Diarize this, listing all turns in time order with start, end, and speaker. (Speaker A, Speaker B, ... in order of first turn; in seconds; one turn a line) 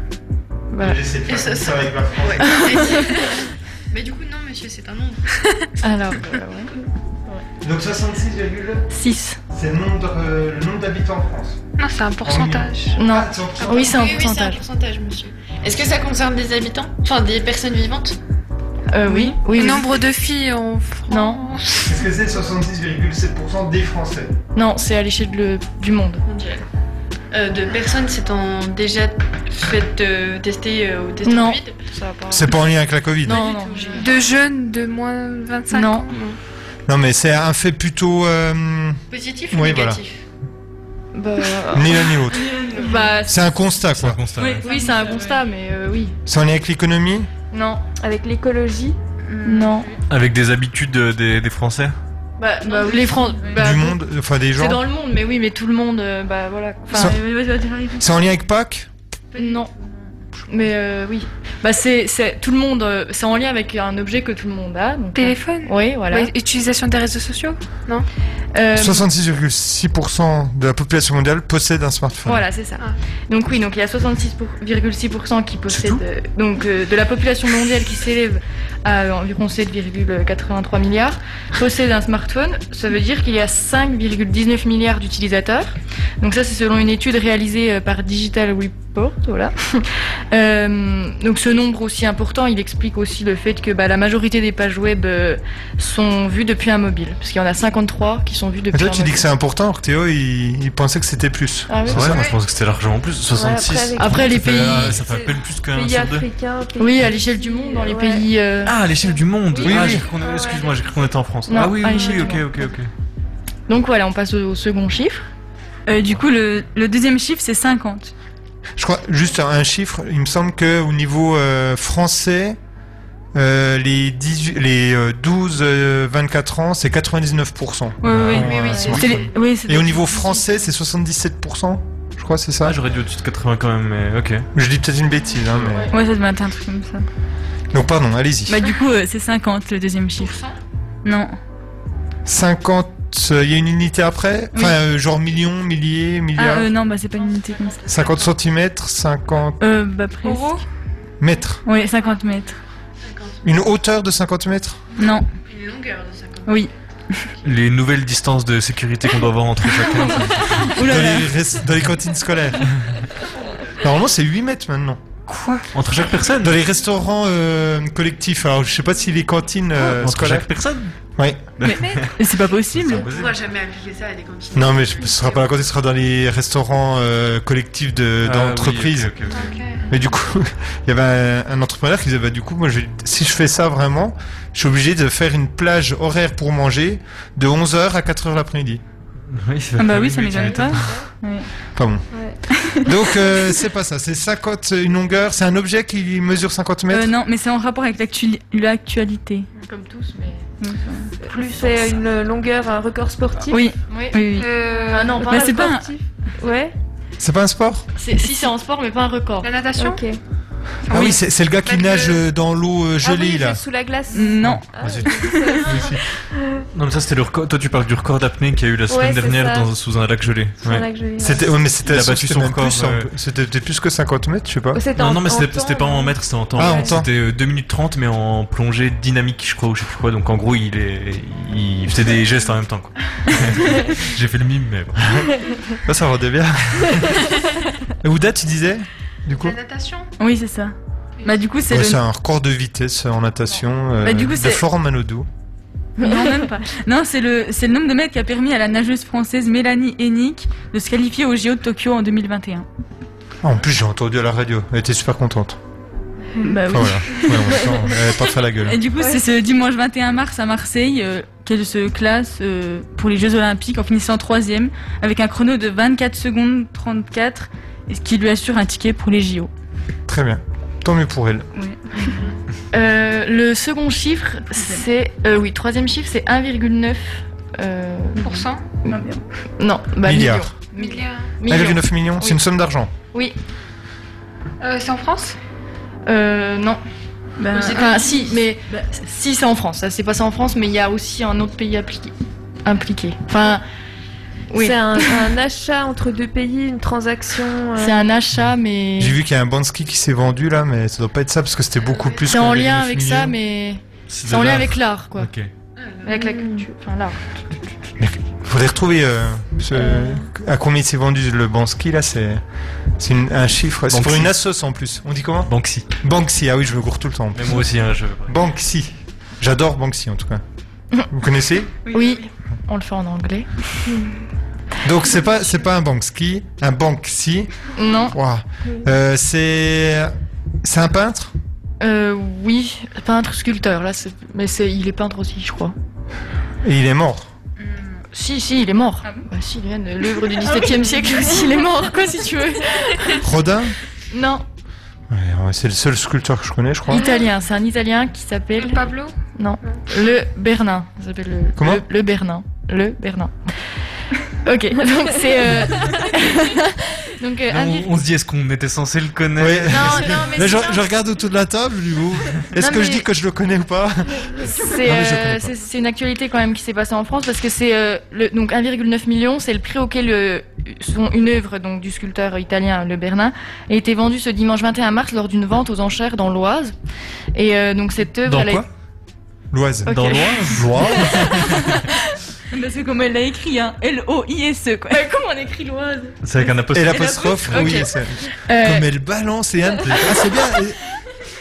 Speaker A: 0.7-1.0
Speaker B: 0.8-2.8
Speaker C: 1.3-5.5
Speaker A: 2.4-3.0
Speaker A: 5.8-6.7
Speaker B: 7.6-8.9
Speaker A: 8.9-9.4
Speaker B: 9.5-11.6
Speaker D: 11.8-13.0
Speaker B: 12.2-13.9
Speaker A: 12.9-14.6
Speaker C: 13.7-18.2
Speaker A: 18.9-19.9
Speaker E: 19.1-19.4
Speaker D: 19.5-22.0
Speaker A: 21.1-21.4
Speaker B: 21.8-24.3
Speaker A: 24.5-26.2
Speaker C: 26.2-26.6
Speaker C: 27.3-31.8
Speaker A: 31.2-32.6
Speaker B: 32.3-33.4
Speaker A: 33.2-34.1
Speaker D: 33.3-36.4
Speaker A: 35.7-36.1
Speaker B: 36.9-39.0
Speaker C: 39.1-40.2
Speaker B: 39.5-40.0
Speaker A: 41.1-42.1
Speaker B: 41.7-42.6
Speaker E: 42.4-43.3
Speaker A: 42.7-43.8
Speaker B: 43.2-44.2
Speaker F: 43.9-44.6
Speaker E: 44.4-45.4
Speaker A: 44.6-46.1
Speaker B: 46.2-47.3
Speaker A: 47.5-47.8
Speaker G: 48.0-49.0
Speaker E: 49.3-49.9
Speaker A: 49.4-49.9
Speaker F: 50.1-52.0
Speaker A: 52.4-54.0
Speaker E: 52.8-53.6
Speaker B: 53.5-54.8
Speaker A: 54.5-57.1
Speaker B: 56.9-57.2
Speaker E: 56.9-58.1
Speaker B: 58.0-58.9
Speaker A: 59.3-59.7
Speaker A: 60.5-66.3
Speaker D: 65.1-68.1
Speaker A: 68.5-69.1
Speaker B: 68.7-72.4
Speaker A: 72.2-99.3
Speaker B: 98.7-102.2
Speaker A: 101.7-102.2
Speaker F: 101.9-106.3
Speaker G: 103.3-108.2
Speaker A: 104.0-105.0
Speaker A: 106.8-108.7
Speaker F: 108.6-112.9
Speaker G: 109.5-110.9
Speaker B: 109.6-110.0
Speaker A: 111.5-112.5
Speaker G: 111.9-112.4
Speaker A: 113.7-115.3
Speaker E: 115.9-118.1
Speaker B: 118.8-122.6
Speaker B: 123.3-132.8
Speaker E: 128.0-130.5
Speaker F: 128.1-128.5
Speaker A: 128.6-129.0
Speaker F: 132.6-134.5
Speaker B: 134.5-135.9
Speaker E: 135.9-137.1
Speaker B: 137.7-138.6
Speaker E: 138.5-140.4
Speaker E: 141.0-141.3
Speaker B: 142.2-146.7
Speaker E: 146.3-147.9
Speaker B: 147.9-149.6
Speaker E: 149.6-150.6
Speaker D: 150.2-150.6
Speaker B: 151.2-151.6
Speaker E: 151.6-152.6
Speaker C: 153.0-153.4
Speaker B: 153.4-154.9
Speaker E: 154.9-155.2
Speaker C: 155.5-156.7
Speaker E: 156.4-156.7
Speaker F: 157.4-160.8
Speaker E: 160.6-161.3
Speaker B: 160.8-162.8
Speaker B: 163.8-165.0
Speaker F: 165.3-166.6
Speaker B: 166.4-171.4
Speaker F: 169.8-170.9
Speaker F: 171.6-173.4
Speaker E: 171.6-173.1
Speaker D: 171.7-172.5
Speaker C: 172.9-175.4
Speaker B: 174.5-179.1
Speaker F: 178.2-179.6
Speaker D: 179.3-179.9
Speaker B: 179.9-188.8
Speaker F: 189.3-190.9
Speaker E: 189.8-191.5
Speaker A: 190.4-190.7
Speaker G: 190.7-191.1
Speaker B: 191.7-192.1
Speaker G: 192.1-192.4
Speaker E: 192.6-192.9
Speaker B: 192.7-197.1
Speaker E: 196.9-199.5
Speaker A: 199.6-200.5
Speaker E: 200.6-201.1
Speaker G: 201.2-203.7
Speaker A: 201.3-201.8
Speaker E: 203.5-204.5
Speaker A: 203.9-205.8
Speaker D: 204.3-205.2
Speaker G: 204.4-206.7
Speaker E: 205.2-205.9
Speaker B: 207.2-207.8
Speaker A: 207.9-209.5
Speaker D: 209.4-210.0
Speaker G: 209.8-210.2
Speaker D: 210.8-212.3
Speaker B: 210.9-213.6
Speaker G: 213.0-216.6
Speaker E: 214.1-215.6
Speaker B: 214.4-215.1
Speaker B: 215.6-216.0
Speaker F: 216.7-220.9
Speaker G: 218.9-219.7
Speaker G: 220.6-221.5
Speaker B: 221.2-224.8
Speaker F: 221.8-223.1
Speaker G: 224.7-226.9
Speaker F: 224.9-235.3
Speaker B: 226.5-227.1
Speaker B: 235.8-237.3
Speaker B: 238.0-239.6
Speaker D: 239.3-240.1
Speaker E: 240.2-242.0
Speaker B: 241.7-245.3
Speaker E: 244.0-244.6
Speaker E: 246.0-252.7
Speaker B: 253.4-255.6
Speaker E: 256.4-258.1
Speaker B: 256.7-258.8
Speaker E: 258.6-269.5
Speaker B: 270.1-271.5
Speaker E: 271.5-272.3
Speaker A: 272.7-279.0
Speaker E: 274.5-274.8
Speaker D: 278.2-278.6
Speaker E: 278.9-279.2
Speaker A: 279.6-282.4
Speaker B: 280.0-280.5
Speaker D: 280.7-281.3
Speaker B: 281.5-282.9
Speaker D: 284.6-285.4
Speaker A: 286.1-286.8
Speaker E: 287.4-287.9
Speaker A: 287.5-292.1
Speaker A: 292.6-293.6
Speaker A: 294.5-295.2
Speaker G: 294.6-298.1
Speaker A: 297.8-299.1
Speaker B: 299.0-303.3
Speaker C: 301.8-302.3
Speaker A: 302.2-305.3
Speaker F: 304.1-305.5
Speaker C: 305.8-306.1
Speaker A: 306.0-307.2
Speaker G: 306.1-306.6
Speaker B: 308.0-312.4
Speaker G: 309.7-310.2
Speaker B: 313.0-317.6
Speaker F: 313.9-314.4
Speaker F: 315.5-315.9
Speaker F: 317.3-318.4
Speaker B: 318.2-320.4
Speaker B: 321.1-321.8
Speaker A: 321.9-323.5
Speaker B: 324.8-327.5
Speaker A: 327.8-328.1
Speaker B: 328.1-331.3
Speaker A: 331.8-335.8
Speaker B: 336.6-337.3
Speaker E: 337.6-338.0
Speaker A: 338.1-343.2
Speaker E: 340.4-341.5
Speaker B: 343.2-343.8
Speaker A: 344.1-344.4
Speaker B: 345.1-347.1
Speaker A: 346.9-353.6
Speaker D: 348.6-349.8
Speaker B: 351.6-351.8
Speaker A: 354.4-357.9
Speaker F: 357.5-360.2
Speaker B: 359.4-365.5
Speaker A: 359.7-360.9
Speaker A: 362.6-363.1
Speaker A: 364.4-376.7
Speaker A: 377.3-378.6
Speaker F: 378.2-378.6
Speaker B: 379.5-379.9
Speaker A: 379.9-381.6
Speaker F: 379.9-381.8
Speaker B: 380.5-381.2
Speaker E: 382.5-385.0
Speaker A: 384.9-386.2
Speaker F: 386.2-387.8
Speaker B: 386.7-390.8
Speaker A: 387.0-388.9